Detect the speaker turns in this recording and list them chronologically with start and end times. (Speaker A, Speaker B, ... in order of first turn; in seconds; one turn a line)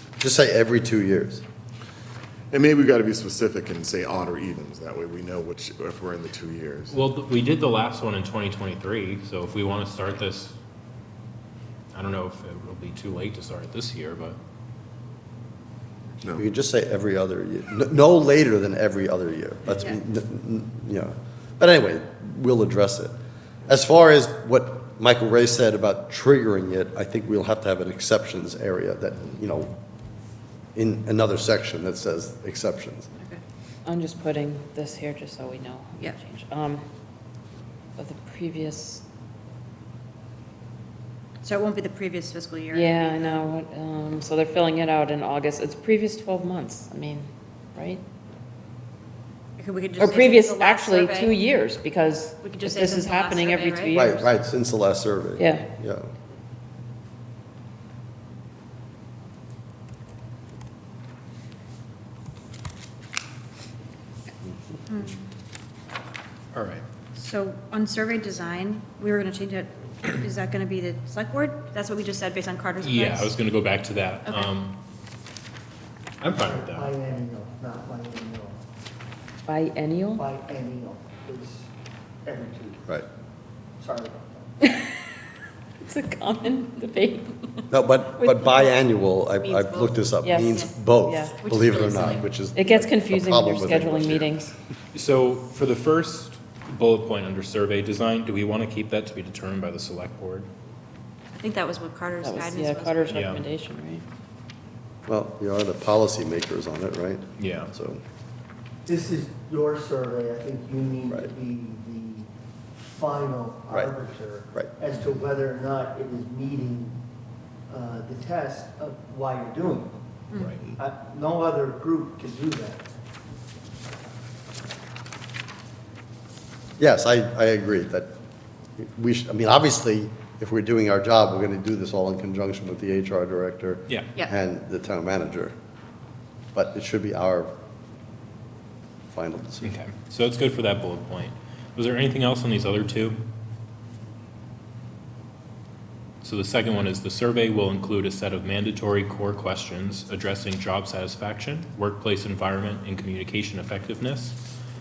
Speaker A: 0.2-1.4
Speaker B: 2.5-7.0
Speaker C: 6.9-10.6
Speaker C: 11.9-14.4
Speaker A: 16.3-23.1
Speaker A: 23.7-29.7
Speaker A: 30.8-33.1
Speaker D: 33.9-36.8
Speaker D: 38.0-39.0
Speaker E: 41.4-43.4
Speaker D: 42.7-48.0
Speaker E: 49.6-51.4
Speaker D: 50.0-54.3
Speaker E: 52.4-54.1
Speaker A: 53.9-56.1
Speaker D: 55.4-55.7
Speaker E: 64.9-65.2
Speaker C: 66.5-66.8
Speaker E: 67.2-73.3
Speaker C: 72.8-74.8
Speaker E: 74.2-74.5
Speaker C: 76.2-76.9
Speaker F: 76.4-78.6
Speaker D: 79.5-80.2
Speaker F: 80.2-81.7
Speaker F: 82.2-82.9
Speaker F: 83.8-84.6
Speaker D: 84.6-85.0
Speaker D: 85.8-87.7
Speaker A: 87.7-94.3
Speaker D: 88.2-88.6
Speaker E: 89.4-90.7
Speaker D: 90.2-91.4
Speaker E: 91.4-92.3
Speaker D: 92.5-94.5
Speaker C: 94.9-100.5
Speaker E: 101.3-103.2
Speaker D: 102.2-104.0
Speaker C: 103.1-103.4
Speaker A: 105.1-108.0
Speaker C: 107.4-107.7
Speaker F: 108.9-112.3
Speaker F: 112.9-117.0
Speaker F: 117.7-120.0
Speaker F: 120.8-122.8
Speaker A: 126.8-128.1
Speaker A: 128.8-135.5
Speaker A: 136.6-137.5
Speaker A: 139.1-139.7
Speaker C: 139.6-143.2
Speaker C: 146.2-154.4